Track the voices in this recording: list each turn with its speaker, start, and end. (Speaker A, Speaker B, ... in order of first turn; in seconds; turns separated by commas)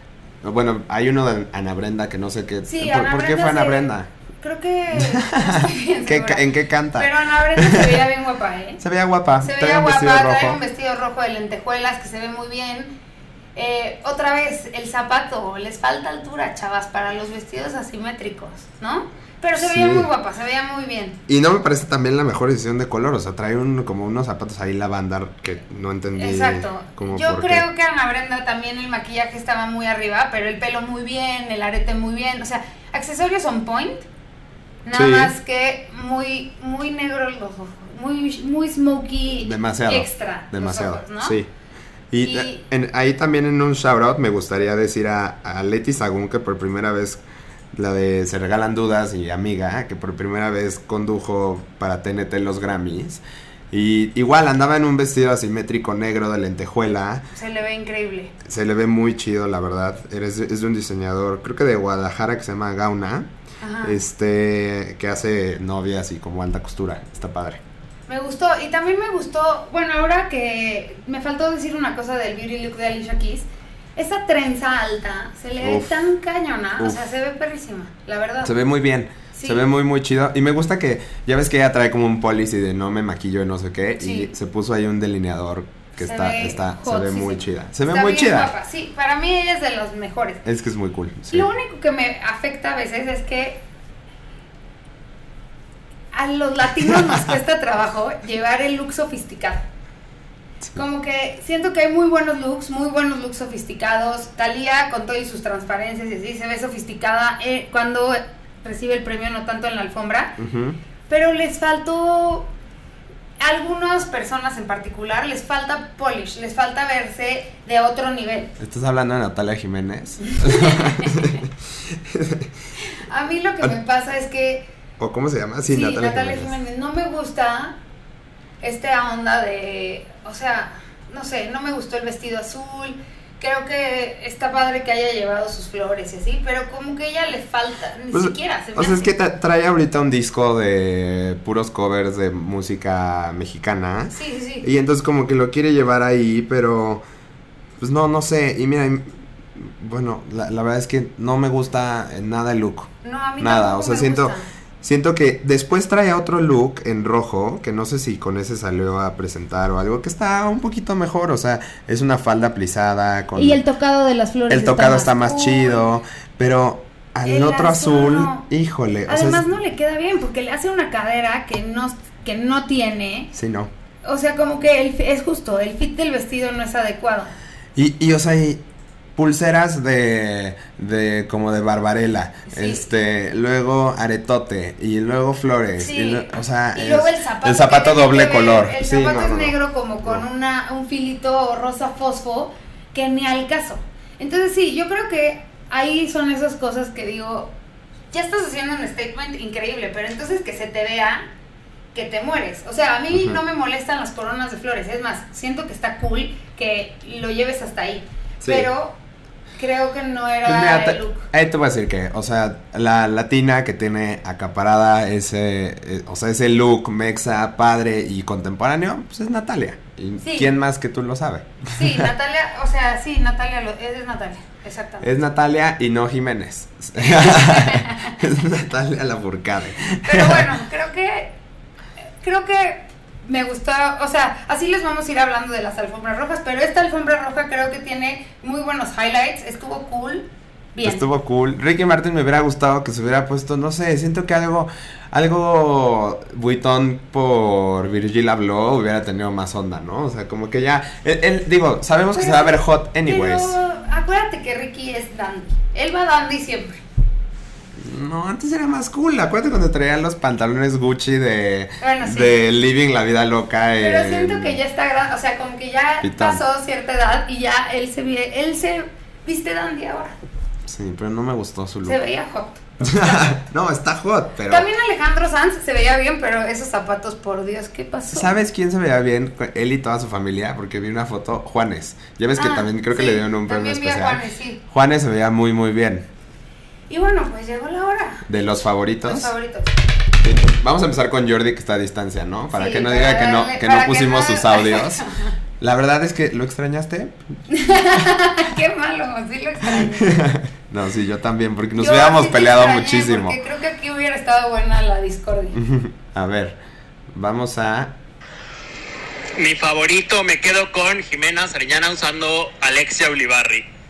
Speaker A: 0.4-4.1, Speaker B: 2.6-8.8, Speaker A: 4.9-8.0, Speaker A: 8.8-10.6, Speaker B: 9.4-12.9, Speaker B: 13.6-21.2, Speaker A: 19.6-20.1, Speaker A: 21.3-27.6, Speaker B: 26.2-34.0, Speaker B: 34.9-41.4, Speaker A: 34.9-35.3, Speaker A: 39.4-41.5, Speaker A: 42.1-47.2, Speaker B: 42.2-42.6, Speaker A: 47.7-57.3, Speaker B: 57.4-58.3, Speaker A: 58.4-63.3, Speaker B: 63.6-64.0, Speaker A: 63.8-67.6, Speaker B: 68.1-78.6, Speaker A: 75.6-76.1, Speaker A: 78.4-88.5, Speaker B: 79.3-79.7, Speaker B: 84.0-84.3, Speaker B: 86.0-90.4, Speaker A: 90.4-91.5, Speaker B: 91.3-93.6, Speaker B: 96.1-99.7, Speaker B: 100.8-110.4, Speaker A: 110.4-110.8, Speaker B: 111.1-112.5, Speaker B: 113.4-118.5, Speaker A: 118.6-122.5, Speaker B: 120.2-121.2, Speaker B: 123.1-124.7, Speaker A: 125.0-126.6, Speaker B: 125.7-127.8, Speaker B: 128.6-139.1, Speaker A: 138.1-147.0, Speaker B: 144.1-144.7, Speaker A: 147.8-163.6, Speaker B: 153.0-154.5, Speaker B: 163.3-165.9, Speaker A: 164.5-169.4, Speaker B: 167.2-168.5, Speaker B: 169.1-173.3, Speaker A: 173.3-173.7, Speaker B: 174.0-177.3, Speaker A: 177.8-178.6, Speaker A: 179.2-190.2, Speaker B: 182.5-182.8, Speaker B: 185.8-197.5, Speaker B: 198.1-201.3, Speaker B: 201.9-209.0, Speaker A: 203.1-203.4, Speaker A: 208.4-208.7, Speaker B: 209.6-211.2, Speaker A: 210.4-222.1, Speaker B: 220.2-220.5, Speaker B: 221.7-225.1, Speaker A: 225.0-230.5, Speaker B: 227.0-228.2, Speaker B: 230.0-231.3, Speaker B: 232.2-241.0, Speaker A: 240.8-253.6, Speaker B: 252.1-256.8, Speaker A: 257.8-264.6, Speaker B: 261.8-262.4, Speaker B: 263.8-270.1, Speaker A: 266.0-266.4, Speaker A: 270.7-272.0, Speaker B: 271.8-273.4, Speaker A: 272.8-274.7, Speaker B: 274.5-278.4, Speaker A: 278.1-286.1, Speaker B: 282.4-284.6, Speaker B: 286.9-288.3, Speaker A: 288.3-289.3, Speaker B: 289.0-289.8, Speaker A: 290.2-295.0, Speaker B: 292.5-295.3, Speaker A: 295.6-297.2, Speaker B: 297.5-300.2, Speaker A: 299.8-303.4, Speaker B: 301.8-305.6, Speaker A: 305.6-306.6, Speaker A: 307.1-308.0, Speaker C: 309.4-313.7